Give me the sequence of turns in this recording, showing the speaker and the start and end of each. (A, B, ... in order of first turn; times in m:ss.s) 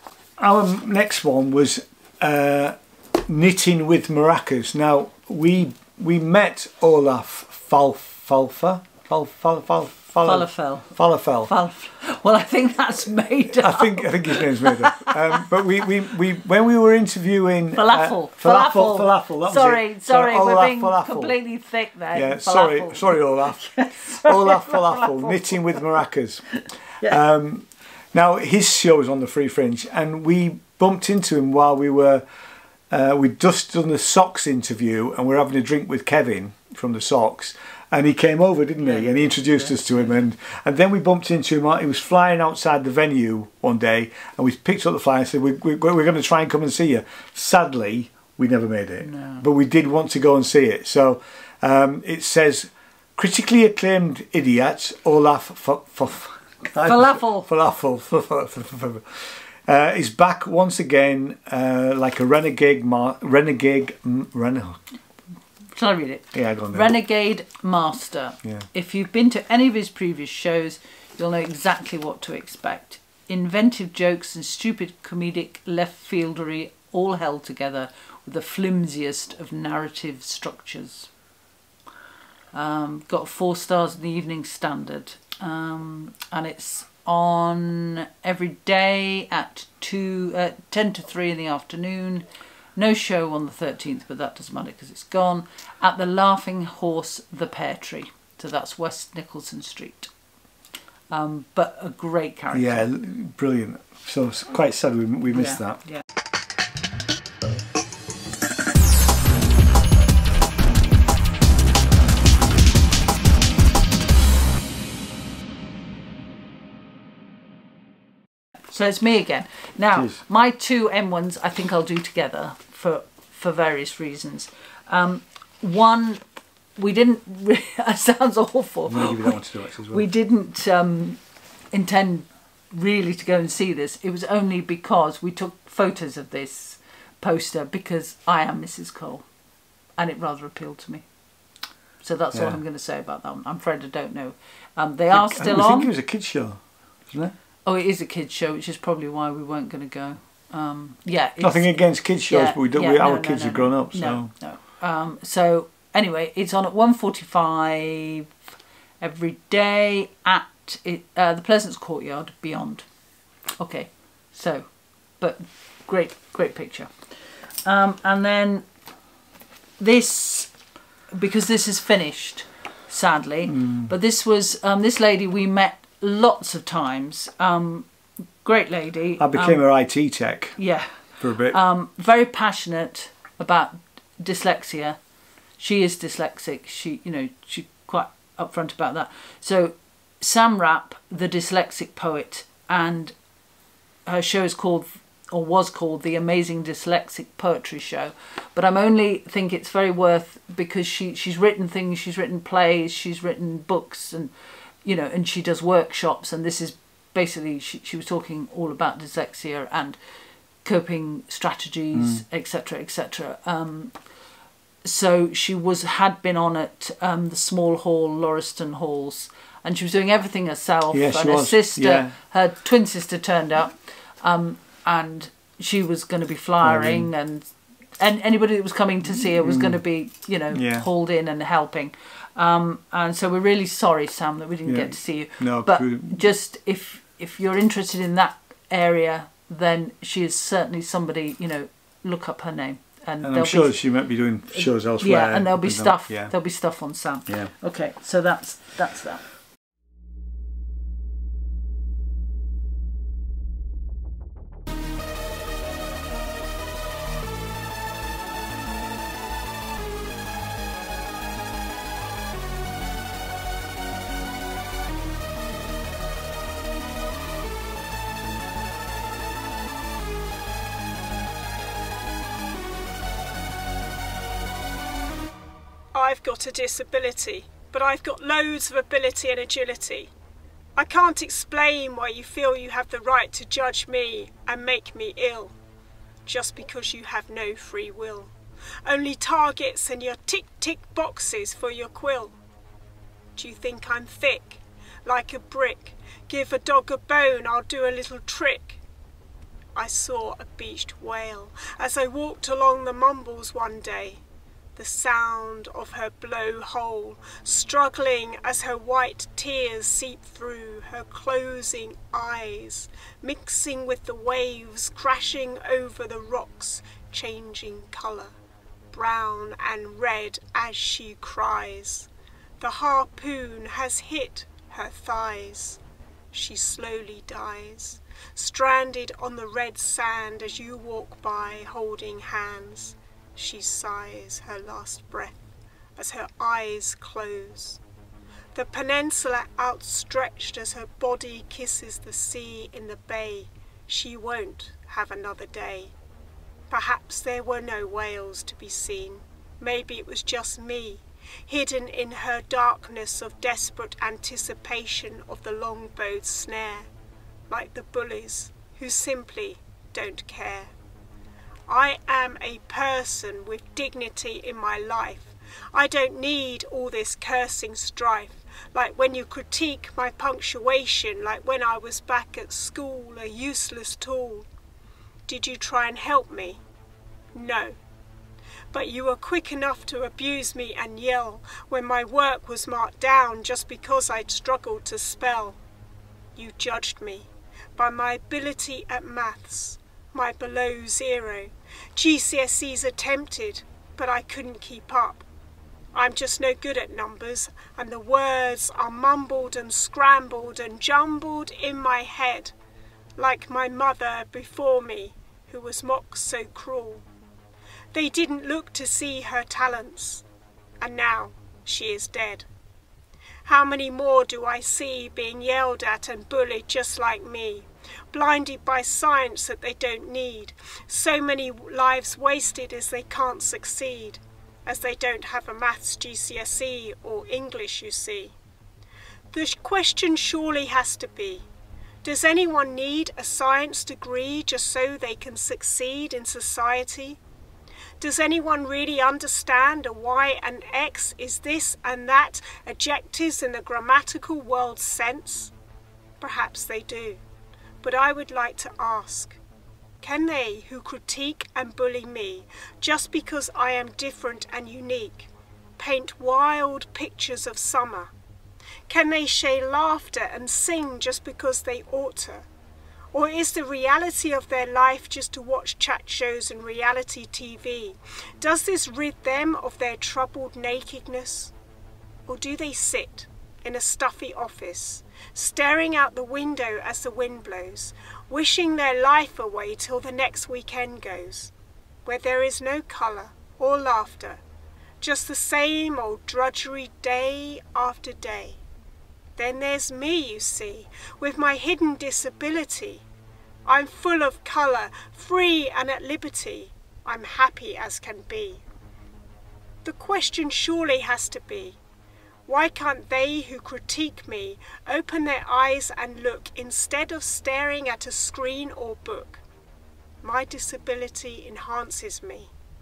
0:00.4-0:11.5 A
0:10.2-0:15.4 B
0:13.5-0:21.4 A
0:17.7-0:25.8 B
0:22.1-0:32.2 A
0:32.9-1:04.8 A
0:38.8-0:40.2 B
0:49.0-0:49.5 B
0:56.8-0:57.5 B
1:05.7-1:21.1 B
1:06.3-1:07.0 A
1:22.5-1:40.1 B
1:41.1-1:42.9 B
1:42.5-1:45.8 A
1:45.3-1:46.0 B
1:58.7-2:06.2 B
1:59.9-2:00.2 A
2:06.8-2:09.4 B
2:08.9-2:10.0 A
2:09.9-2:19.3 B
2:20.0-2:21.0 B
2:22.0-2:25.9 B
2:25.1-2:27.4 A
2:27.6-2:38.3 B
2:31.4-2:34.3 A
2:39.0-2:42.9 B
2:43.6-2:48.7 B
2:49.8-2:50.5 B
2:51.1-2:57.9 B
2:53.5-2:53.9 A
2:58.4-2:59.6 B
2:59.2-3:00.6 A
3:00.6-3:05.0 B
3:01.2-3:01.6 A
3:05.6-3:13.2 B
3:14.1-3:24.3 B
3:24.8-3:30.0 B
3:30.6-3:34.1 B
3:31.9-3:32.2 A
3:34.8-4:03.8 B
3:40.9-3:42.1 A
3:46.6-3:47.1 A
3:49.1-3:49.8 A
3:50.5-3:50.9 A
3:54.6-3:56.3 A
4:03.2-4:06.3 A
4:04.5-4:09.3 B
4:07.3-4:07.5 A
4:35.9-4:40.1 C
4:40.8-4:45.5 C
4:46.3-4:48.3 C
4:48.9-4:52.4 C
4:53.4-4:58.8 C
4:59.8-5:04.2 C
5:04.8-5:18.3 C
5:18.9-5:22.1 C
5:22.6-5:25.8 C
5:26.3-5:35.4 C
5:36.0-5:37.8 C
5:38.6-5:45.9 C
5:46.7-5:56.9 C
5:57.5-6:00.7 C
6:01.7-6:14.5 C
6:15.3-6:16.6 C
6:17.4-6:17.8 C
6:18.7-6:25.6 C
6:26.4-6:35.2 C
6:35.9-6:42.5 C
6:43.2-6:47.0 C
6:47.9-6:50.2 C
6:50.8-6:52.5 C
6:53.5-7:08.3 C
7:09.3-7:11.5 C
7:12.0-7:17.2 C
7:18.0-7:25.5 C
7:26.2-7:27.2 C
7:27.8-7:29.4 C
7:30.0-7:38.1 C
7:38.9-7:42.5 C
7:43.1-7:51.5 C
7:52.3-8:01.5 C
8:02.1-8:04.4 C
8:05.0-8:08.6 C
8:09.4-8:13.0 C
8:13.7-8:18.6 C
8:19.8-8:21.8 C
8:22.5-8:29.4 C
8:30.2-8:32.5 C